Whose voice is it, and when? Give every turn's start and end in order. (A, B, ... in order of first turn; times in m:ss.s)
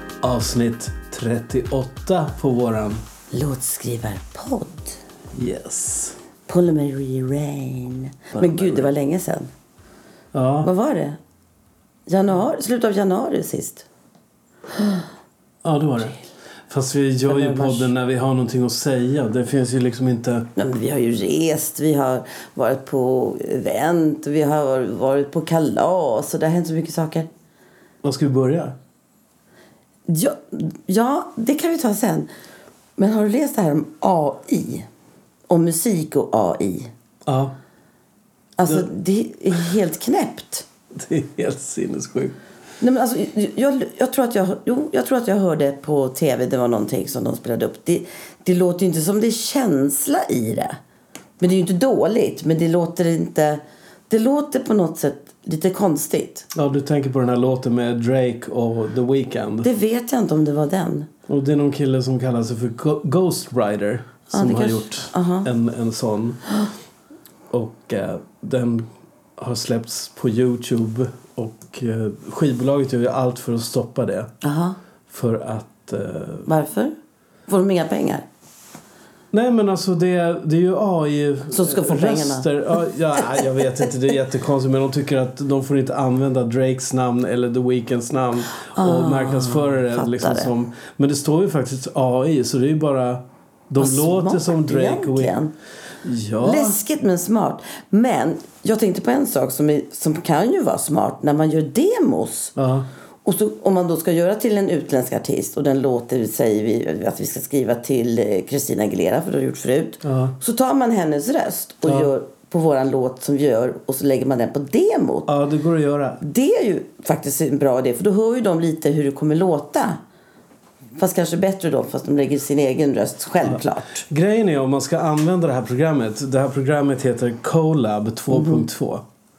0:00.2-0:03.0 A
0:03.3-0:05.0 B
0:05.3-0:06.2 A
0:06.5-0:09.5 B
0:08.4-0:08.9 A
0:10.3-0:10.7 A
0:10.6-0:11.2 B
0:12.1-0:13.8 B
0:15.6-0:16.2 A
0:16.7-0:20.5 A
0:17.3-0:17.9 B
0:20.6-0:27.3 B
0:28.0-0:28.8 A
0:30.1-0:32.3 B
0:33.0-0:34.9 B
0:35.5-0:36.9 B
0:37.2-0:37.5 A
0:38.6-0:40.6 B
0:40.9-0:42.4 A
0:42.8-0:50.8 B
0:51.4-0:56.5 B
0:56.5-0:59.7 A
0:59.6-1:01.1 B
1:01.3-1:06.4 A
1:04.3-1:05.5 B
1:07.5-1:14.3 A
1:14.4-1:14.8 B
1:15.1-1:16.5 A
1:16.5-1:16.9 B
1:17.5-1:18.2 B
1:19.3-1:35.4 A
1:21.5-1:22.5 B
1:28.7-1:30.5 B
1:33.8-1:35.5 B
1:36.0-1:36.8 A
1:36.4-1:42.5 B
1:42.6-1:42.9 A
1:43.2-1:55.3 B
1:50.0-1:50.3 A
1:55.3-1:56.2 A
1:56.2-2:00.0 B
2:01.0-2:04.0 B
2:03.4-2:09.0 A
2:08.3-2:08.6 B